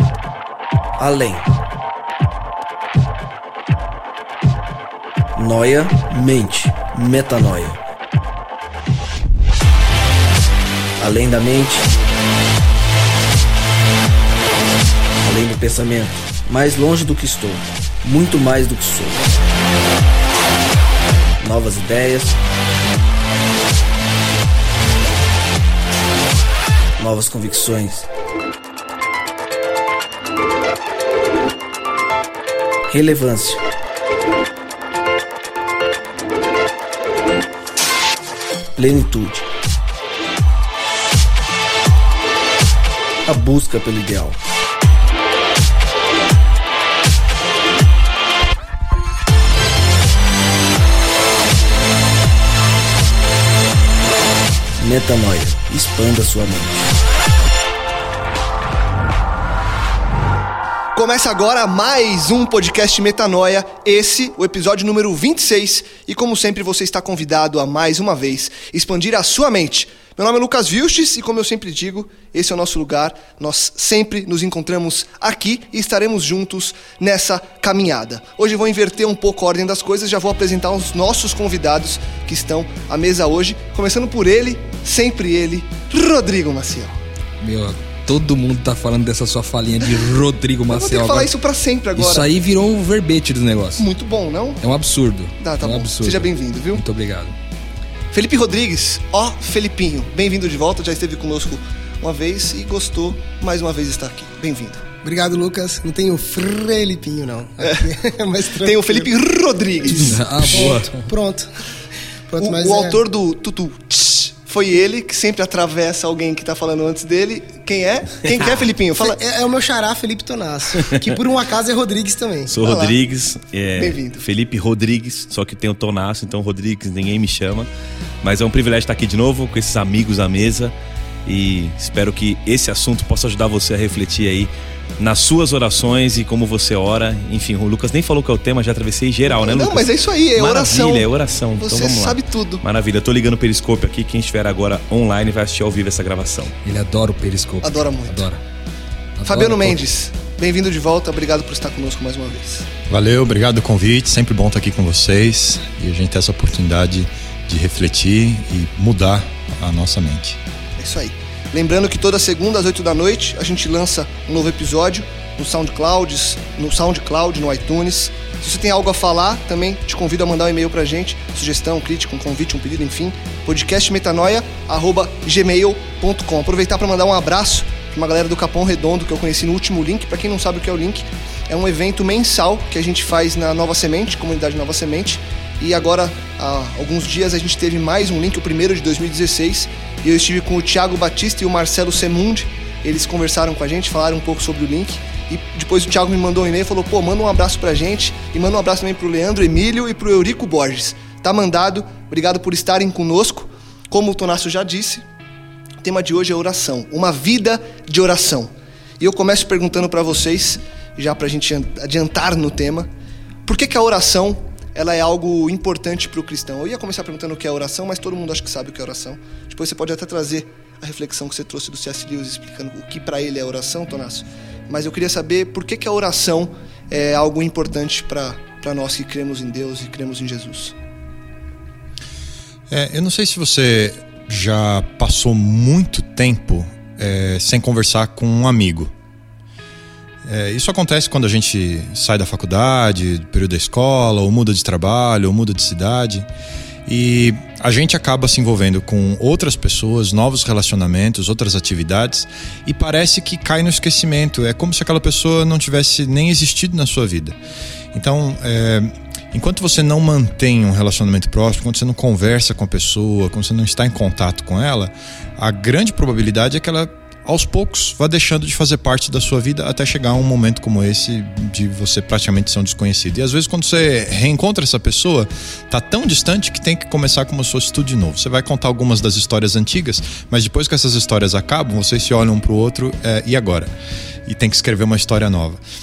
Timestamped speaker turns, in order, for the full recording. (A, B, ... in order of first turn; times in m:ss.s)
0:01.0-0:01.5 A
0:05.4-0:07.8 A
0:11.0-0:11.9 A
0:15.2-0:19.4 A
0:21.4-0:22.4 A
0:27.0-0:28.1 A
0:32.9-0:33.6 A
0:38.8-0:39.5 A
0:43.3-0:44.4 A
0:54.8-0:56.9 A
1:00.9-1:27.0 B
1:27.4-1:31.3 C
1:30.7-1:32.3 B
1:32.0-1:33.9 C
1:33.8-1:34.6 B
1:34.6-1:37.4 C
1:35.4-1:36.8 B
1:38.1-1:44.9 B
1:45.0-1:49.1 D
1:48.6-1:50.7 B
1:49.9-1:51.1 C
1:50.0-1:51.5 D
1:52.3-1:53.0 D
1:52.4-1:59.2 B
1:59.0-2:02.5 D
2:02.5-2:07.7 E
2:02.6-2:03.0 B
2:03.8-2:04.2 B
2:08.2-2:10.7 E
2:11.3-2:26.6 E
2:19.3-2:21.1 B
2:21.6-2:22.6 B
2:26.6-2:28.4 C
2:27.6-2:28.2 B
2:29.2-2:29.8 C
2:29.3-2:32.7 B
2:32.9-2:40.4 F
2:40.8-3:25.0 B
3:25.8-3:32.9 B
3:33.4-3:50.8 B
3:52.7-3:58.9 F
4:00.2-4:06.3 F
4:06.9-4:17.4 F
4:17.9-4:43.7 F
4:44.3-4:45.6 F